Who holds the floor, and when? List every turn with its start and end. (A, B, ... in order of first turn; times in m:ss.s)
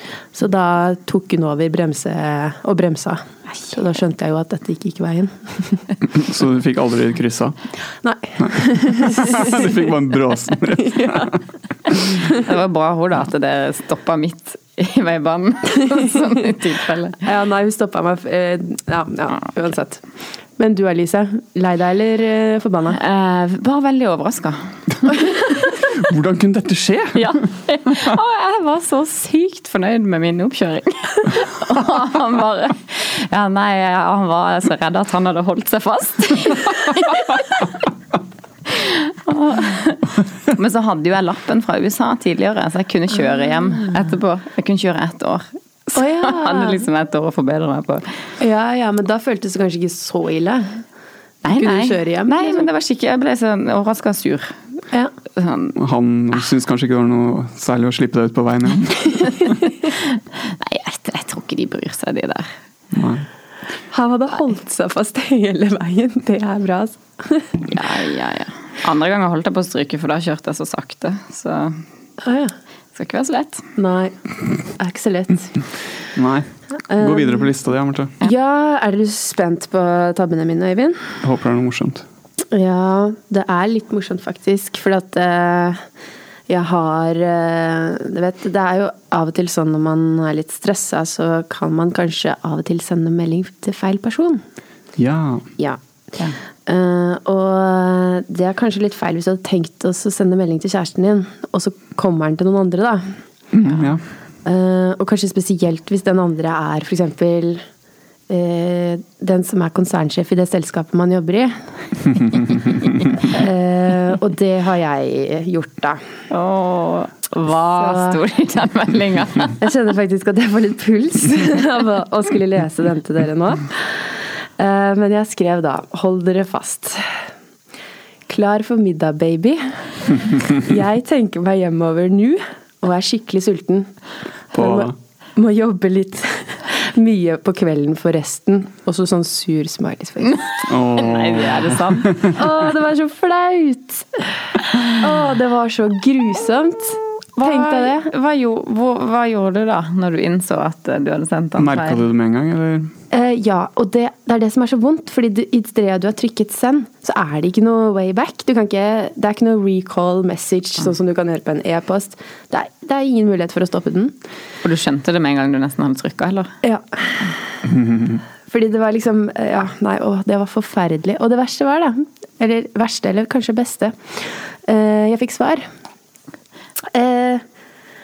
0:00.3-0:05.8 A
0:06.0-0:07.6 B
0:08.0-0:09.8 A
0:08.4-0:11.4 B
0:10.8-0:11.3 A
0:12.1-0:17.2 C
0:17.2-0:20.0 A
0:20.6-0:23.0 A
0:22.9-0:25.2 C
0:25.7-0:27.4 B
0:27.1-0:37.7 C
0:38.7-0:48.2 C
0:45.9-0:46.8 A
0:48.4-0:50.8 A
0:51.4-0:54.6 C
0:51.5-0:52.7 A
0:55.3-0:55.8 C
0:55.7-0:59.6 B
0:59.2-1:02.5 C
1:02.9-1:03.2 B
1:03.9-1:07.6 A
1:07.7-1:11.8 C
1:12.2-1:12.5 A
1:12.9-1:13.6 C
1:13.8-1:15.6 A
1:16.1-1:18.1 B
1:16.9-1:17.5 A
1:18.2-1:21.2 A
1:21.2-1:22.0 B
1:22.5-1:25.8 A
1:26.5-1:34.4 A
1:35.0-1:35.5 B
1:36.6-1:43.1 A
1:43.5-1:44.0 B
1:44.4-1:47.6 A
1:48.3-1:51.6 A
1:52.2-1:52.4 A
1:53.1-1:56.0 A
1:56.3-1:59.6 C
1:57.7-1:58.2 A
1:59.6-2:04.0 A
2:04.6-2:07.1 A
2:08.3-2:13.9 A
2:14.5-2:20.4 A
2:14.5-2:14.9 B
2:20.4-2:22.4 C
2:20.6-2:22.4 B
2:22.3-2:28.1 A
2:27.4-2:32.0 C
2:31.6-2:32.9 B
2:33.1-2:44.1 A
2:44.6-2:46.5 C
2:46.6-2:47.4 A
2:47.6-2:48.2 B
2:48.4-2:55.7 A
2:56.9-2:57.4 A